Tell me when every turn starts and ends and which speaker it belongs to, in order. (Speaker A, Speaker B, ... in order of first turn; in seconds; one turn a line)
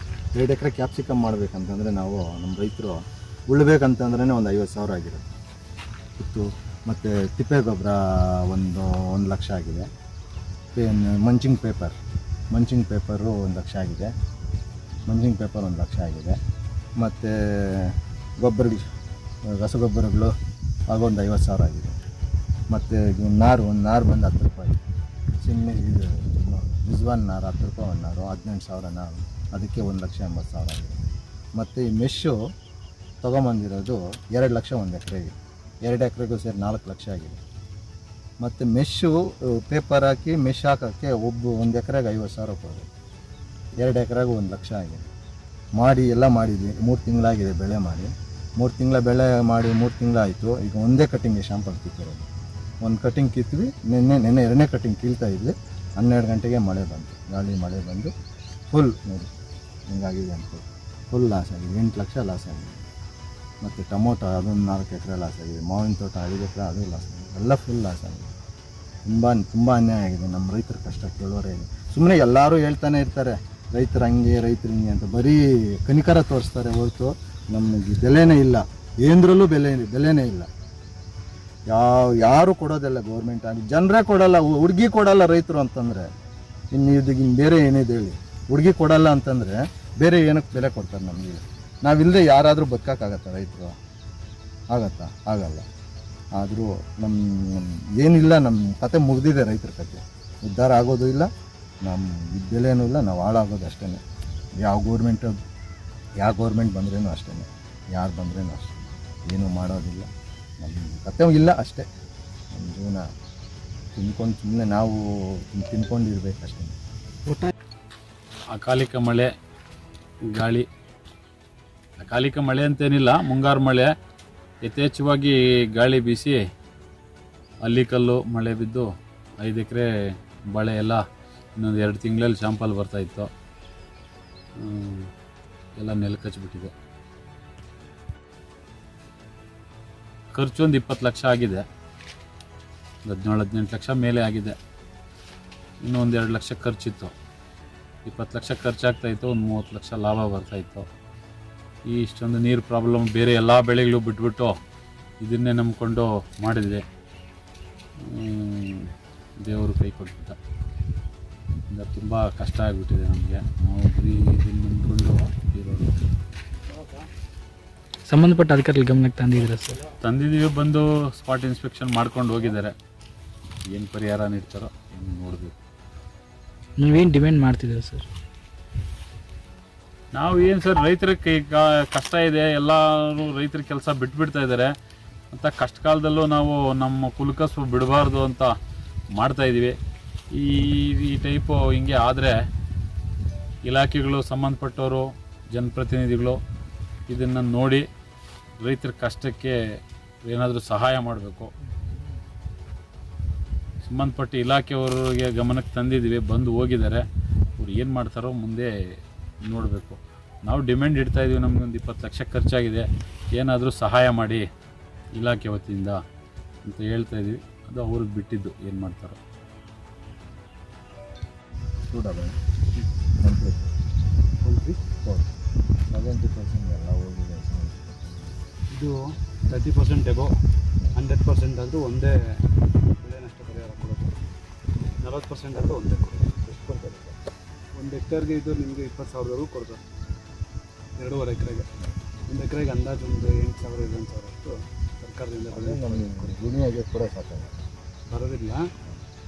Speaker A: 0.3-5.3
Speaker A: 6.2-9.9
Speaker A: 10.7-12.0
Speaker A: 12.5-14.1
Speaker A: 15.1-16.4
Speaker A: 17.0-18.9
Speaker A: 19.5-20.3
Speaker A: 20.9-22.0
Speaker A: 22.7-24.8
Speaker A: 25.4-32.4
Speaker A: 33.2-37.4
Speaker A: 38.4-42.9
Speaker A: 43.8-45.1
Speaker A: 45.8-52.3
Speaker A: 52.8-58.1
Speaker A: 58.7-59.3
Speaker A: 59.9-62.8
Speaker A: 63.6-68.3
Speaker A: 69.1-80.5
Speaker A: 81.7-86.1
Speaker A: 86.7-93.8
Speaker A: 94.7-95.7
Speaker A: 96.3-101.3
Speaker A: 101.8-104.0
Speaker A: 104.6-105.4
Speaker A: 106.2-111.9
Speaker A: 112.5-113.1
Speaker A: 113.9-116.8
Speaker B: 118.5-119.3
Speaker B: 120.3-120.7
Speaker B: 122.0-123.9
Speaker B: 124.7-126.4
Speaker B: 127.6-128.9
Speaker B: 129.4-129.9
Speaker B: 130.5-131.0
Speaker B: 131.6-133.3
Speaker B: 134.6-135.1
Speaker B: 135.8-136.7
Speaker B: 140.3-141.6
Speaker B: 143.1-144.6
Speaker B: 145.8-147.1
Speaker B: 148.1-150.8
Speaker B: 151.9-154.5
Speaker B: 155.2-156.8
Speaker B: 158.1-158.9
Speaker B: 159.4-160.4
Speaker B: 161.7-166.0
Speaker C: 168.1-169.8
Speaker B: 170.0-172.7
Speaker B: 173.7-175.5
Speaker C: 176.8-178.1
Speaker B: 180.1-184.7
Speaker B: 185.3-188.5
Speaker B: 189.2-189.8
Speaker B: 190.3-192.4
Speaker B: 193.7-196.4
Speaker B: 197.1-197.9
Speaker B: 198.6-199.6
Speaker B: 200.2-201.5
Speaker B: 203.8-207.0
Speaker B: 207.6-208.7
Speaker B: 209.5-214.5
Speaker B: 215.2-216.0
Speaker B: 216.7-219.2
Speaker A: 221.9-222.4
Speaker A: 223.2-223.8
Speaker D: 224.4-224.8
Speaker A: 225.0-225.3
Speaker A: 225.9-228.3
Speaker D: 228.7-230.4
Speaker D: 231.0-232.1
Speaker D: 233.0-234.2
Speaker D: 235.0-236.5
Speaker A: 236.5-237.2
Speaker D: 237.7-239.9
Speaker D: 241.0-241.7
Speaker D: 242.3-246.3
Speaker A: 245.5-247.6
Speaker D: 248.1-248.7